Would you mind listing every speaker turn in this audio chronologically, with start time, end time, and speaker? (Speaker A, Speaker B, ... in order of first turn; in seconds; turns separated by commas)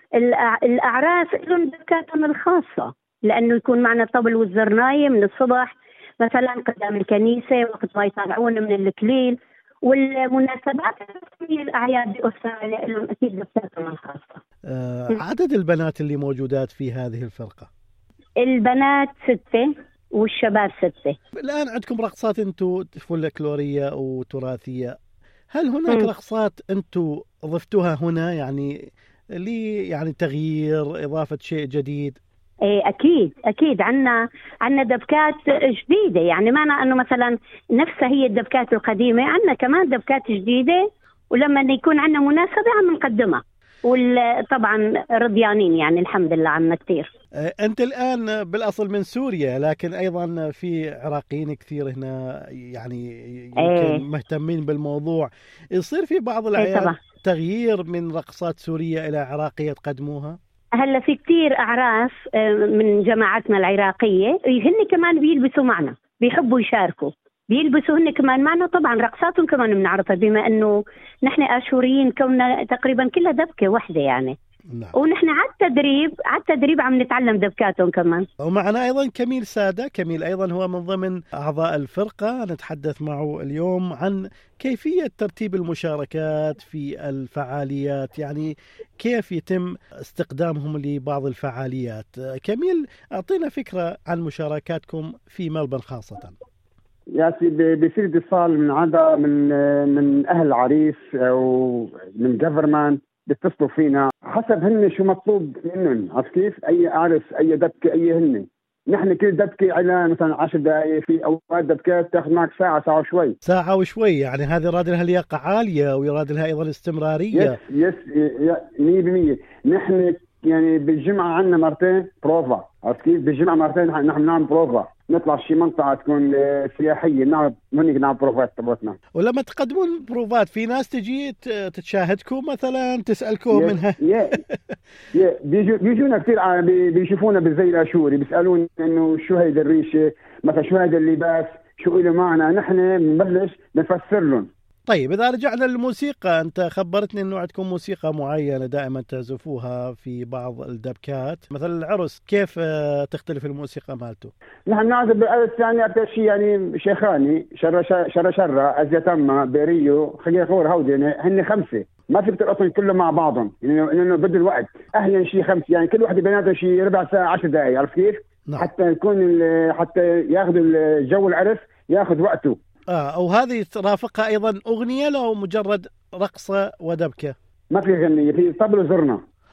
Speaker A: 0.2-14.4, Speaker B: 14.7-17.7, Speaker A: 18.4-21.2, Speaker B: 21.4-24.9, Speaker B: 25.5-28.7, Speaker B: 29.4-32.2, Speaker A: 32.7-47.1, Speaker B: 47.4-60.4, Speaker A: 53.6-54.0, Speaker A: 56.6-57.0, Speaker A: 60.8-74.3, Speaker B: 74.7-75.0, Speaker A: 75.0-78.3, Speaker B: 78.4-96.3, Speaker C: 97.1-113.4, Speaker B: 113.5-117.6, Speaker C: 117.3-129.0, Speaker B: 129.2-134.8, Speaker C: 133.5-134.3, Speaker C: 135.1-144.5, Speaker B: 144.9-154.3, Speaker C: 154.7-172.6, Speaker B: 172.9-177.3, Speaker C: 177.7-179.2